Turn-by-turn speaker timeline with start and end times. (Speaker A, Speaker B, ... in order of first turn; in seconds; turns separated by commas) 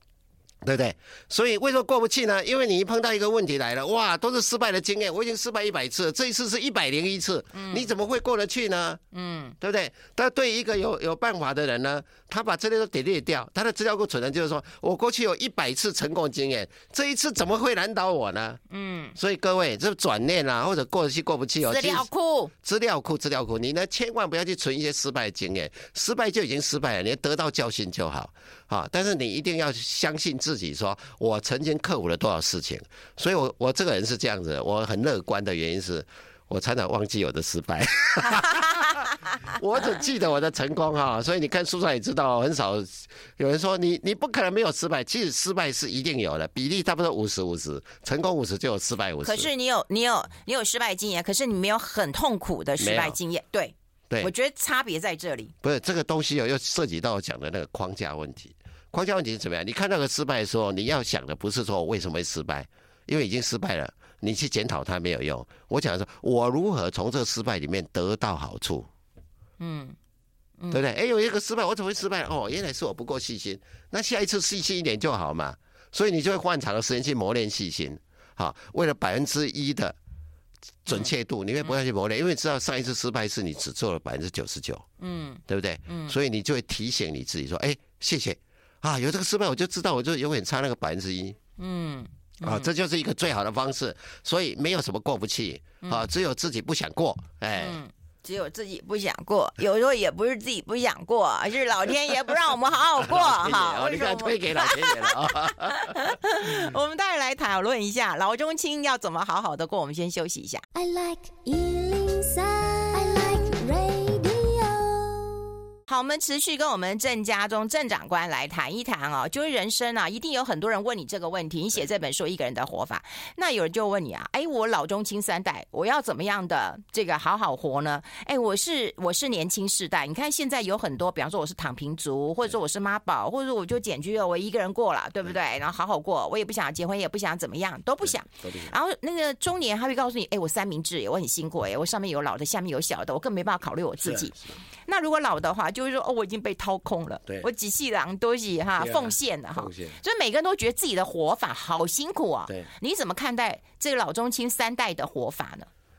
Speaker A: 0.6-9.0, Speaker B: 7.5-7.9, Speaker B: 9.1-9.5, Speaker A: 9.6-18.6, Speaker B: 18.7-19.1, Speaker A: 19.1-22.1, Speaker B: 21.6-22.5, Speaker A: 22.6-49.5, Speaker B: 49.2-55.5, Speaker A: 52.8-53.2, Speaker A: 55.6-68.9, Speaker B: 69.6-70.0, Speaker A: 70.7-80.0, Speaker A: 80.8-84.8, Speaker B: 85.0-86.2, Speaker A: 85.5-91.4, Speaker B: 91.6-92.7, Speaker A: 92.4-97.8, Speaker B: 97.5-110.6, Speaker A: 103.0-106.6, Speaker C: 110.7-115.5, Speaker B: 115.9-155.7, Speaker A: 138.0-138.7, Speaker A: 144.0-144.5, Speaker A: 148.8-150.0